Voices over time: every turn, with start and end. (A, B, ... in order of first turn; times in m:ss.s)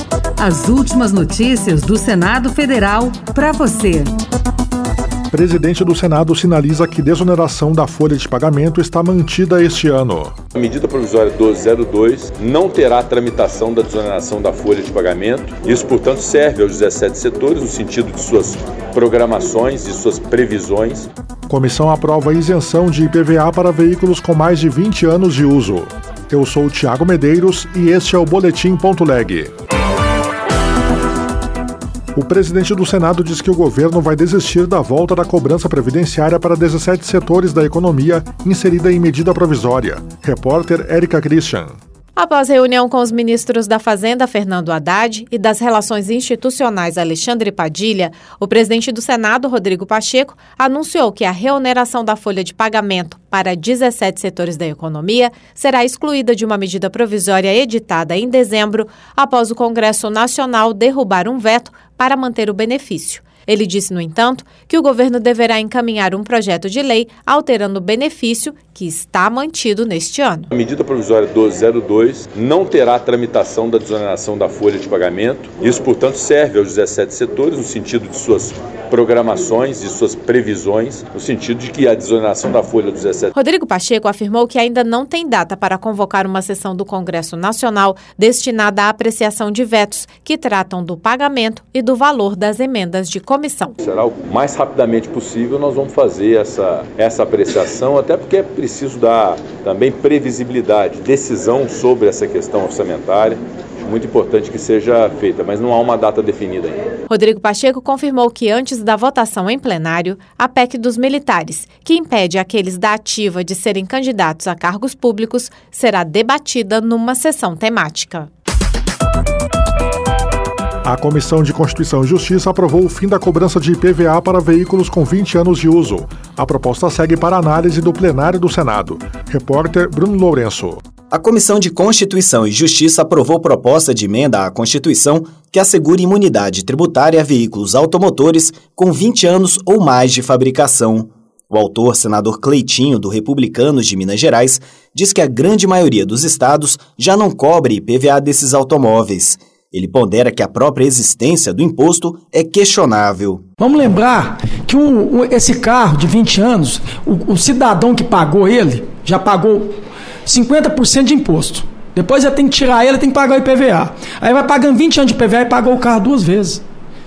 0:00.4-0:04.1 A
0:05.3-0:10.3 B
0:10.6-0:21.1 C
0:21.5-0:29.5 B
0:32.2-0:41.8 B
0:42.2-1:10.5 D
1:10.5-1:23.3 C
1:23.3-1:33.8 D
1:33.8-1:46.9 C
1:47.1-1:58.3 D
2:00.9-2:10.8 B
2:11.1-2:33.4 E
2:33.6-2:39.8 F
2:40.3-2:46.6 F